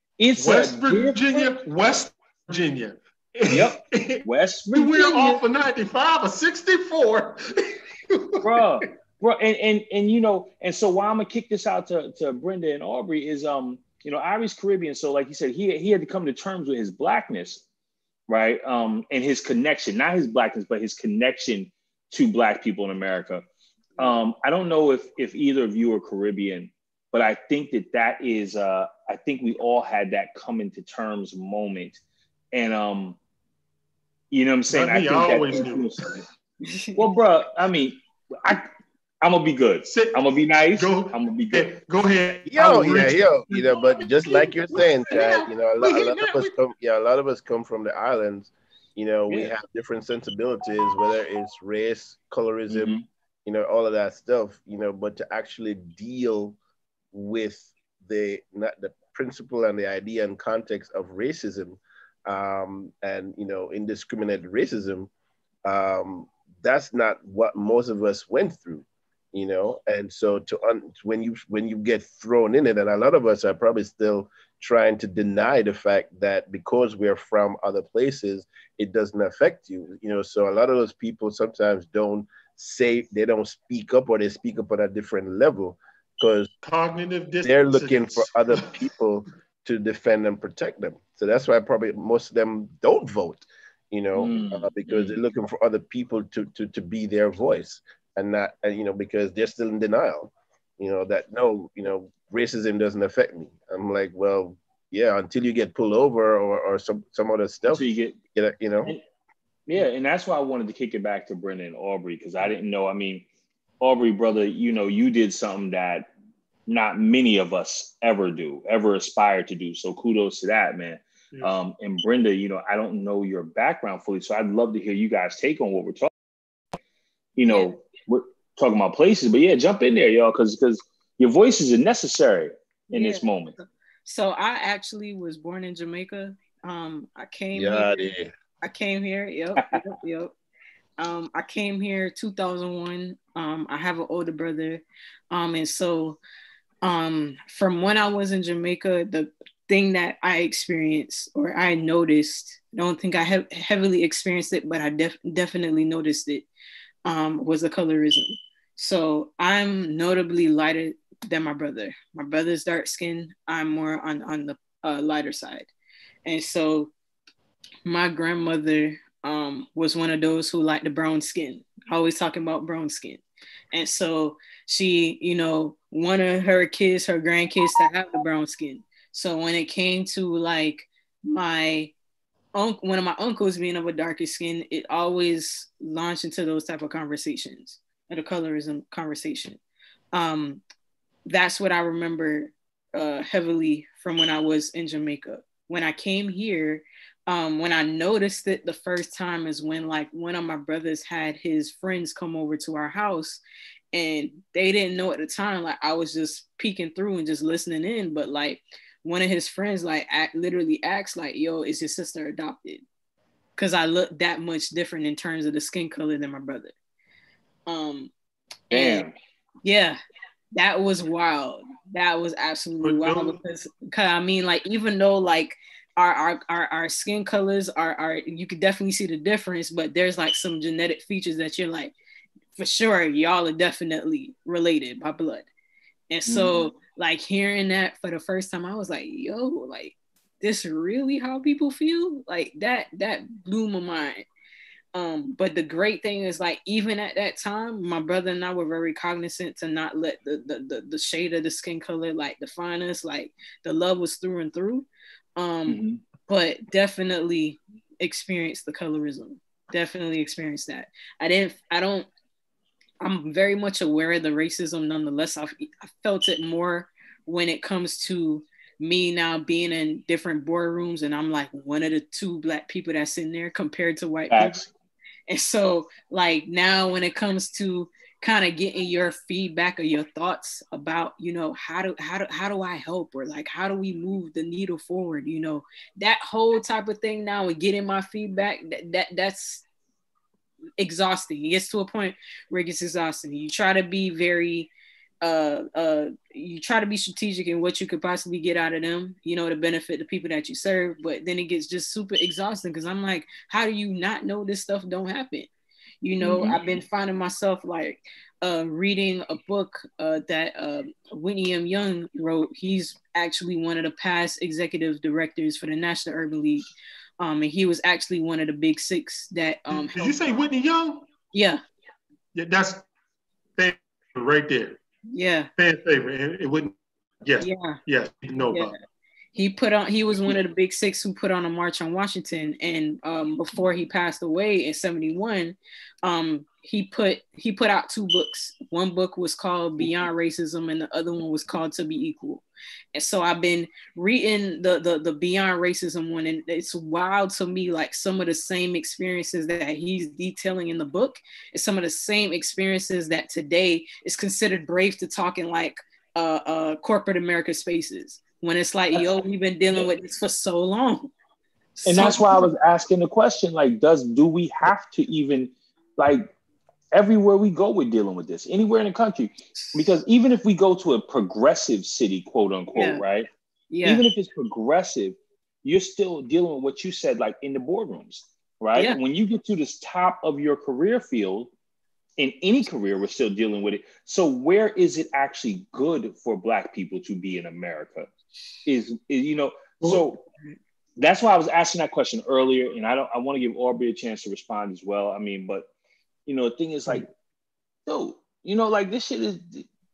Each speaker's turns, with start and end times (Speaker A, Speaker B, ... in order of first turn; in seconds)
Speaker A: 0.2-1.2, 3.5-5.4, 8.4-17.6, 18.3-23.4, 24.0-32.0, 32.5-33.2, 34.3-36.2, 37.0-38.7, 39.2-41.7, 52.7-53.0, 94.2-95.2, 107.7-108.2, 109.7-113.3, 113.8-116.1, 116.7-126.1, 127.4-133.6, 218.7-219.2, 236.3-236.7, 255.7-256.0, 274.3-274.7, 306.2-306.6, 361.9-366.3, 366.9-373.3, 373.9-381.5, 382.2-388.1, 388.7-390.2, 391.0-395.7, 396.3-397.1, 397.9-399.7
Speaker B: 0.4-8.9, 34.7-36.2, 39.9-40.2, 40.7-46.5, 86.6-88.7, 222.8-223.4, 319.7-321.1, 322.4-322.9, 323.6-324.8, 325.6-328.7
Speaker C: 36.7-37.0, 127.5-127.7, 132.9-138.1, 138.6-140.3, 141.0-146.2, 146.8-156.5, 157.1-165.7, 166.2-166.9, 167.9-181.9, 182.6-189.6, 190.1-190.6, 191.3-203.4, 203.9-212.8, 213.6-216.7, 217.7-218.1, 218.7-219.1, 219.6-220.0, 220.5-231.9, 232.6-235.5, 236.1-244.2, 244.9-262.1, 263.0-274.6, 275.3-289.6, 290.8-294.7, 295.2-305.5, 306.0-316.7, 317.2-320.3, 321.3-321.6, 325.1-325.5, 327.4-327.8, 329.4-361.1, 361.8-362.5, 372.8-373.0, 373.7-374.1
Speaker D: 42.5-56.6, 57.1-65.1, 65.7-86.5, 87.4-109.0, 137.5-138.3